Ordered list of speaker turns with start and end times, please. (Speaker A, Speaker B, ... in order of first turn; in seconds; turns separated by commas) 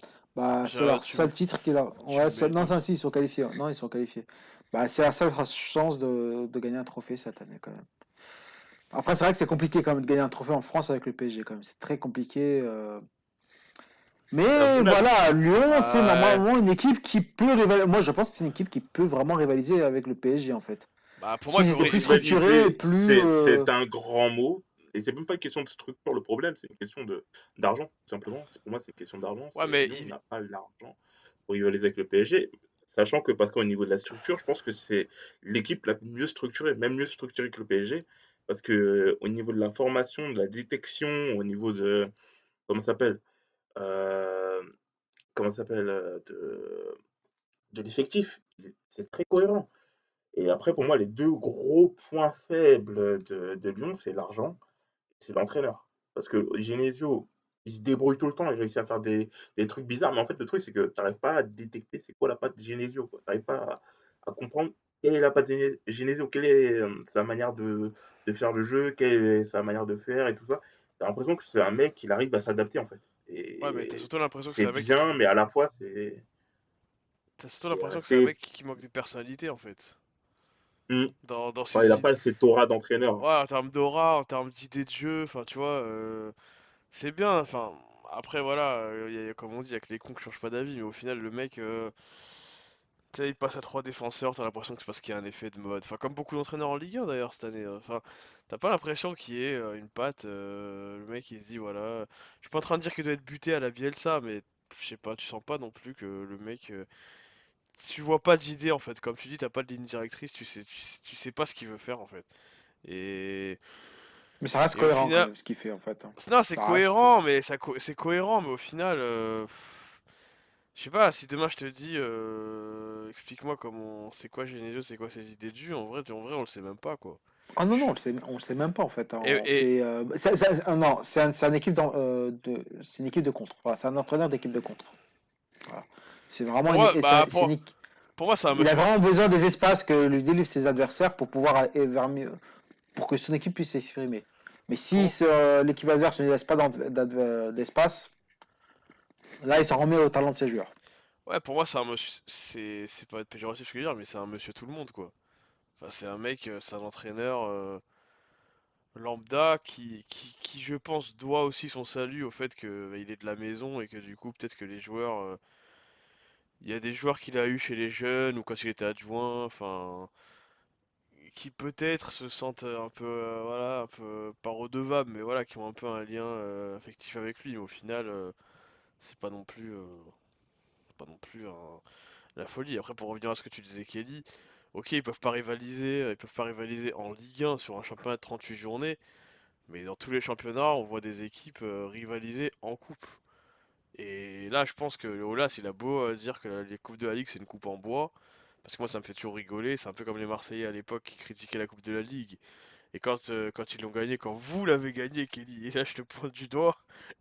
Speaker A: 0.3-7.9, Speaker B: 0.6-1.4, Speaker B: 2.0-2.8, Speaker A: 8.9-13.0, Speaker A: 14.3-20.9, Speaker C: 14.5-15.0, Speaker B: 15.7-16.4, Speaker B: 21.2-22.4, Speaker A: 21.5-23.7, Speaker C: 21.8-42.1, Speaker B: 29.5-30.1, Speaker C: 42.7-43.2, Speaker C: 43.8-44.6, Speaker C: 45.3-46.9, Speaker C: 47.7-49.7, Speaker C: 50.3-54.6, Speaker C: 55.2-76.2, Speaker B: 73.6-75.0, Speaker B: 77.4-80.0, Speaker C: 77.6-78.3, Speaker B: 81.2-82.1, Speaker C: 81.7-83.2, Speaker B: 83.2-86.3, Speaker B: 86.9-91.9, Speaker B: 93.1-106.9, Speaker B: 107.7-112.3, Speaker B: 112.8-113.6, Speaker A: 114.4-117.1, Speaker B: 114.7-115.3, Speaker B: 116.2-119.9, Speaker B: 120.7-127.2, Speaker A: 127.6-134.9, Speaker B: 129.2-129.7, Speaker A: 135.7-137.7, Speaker B: 136.6-137.5, Speaker B: 138.2-138.9, Speaker A: 138.5-142.4, Speaker A: 142.9-148.1, Speaker A: 149.4-150.7, Speaker B: 151.2-155.1, Speaker B: 155.8-157.8, Speaker B: 158.9-165.4, Speaker B: 166.6-170.1, Speaker B: 171.2-178.3, Speaker B: 179.0-180.1, Speaker B: 180.9-181.8, Speaker B: 182.3-189.0, Speaker B: 189.7-193.2, Speaker B: 193.9-198.1, Speaker B: 198.6-202.4, Speaker B: 202.9-206.8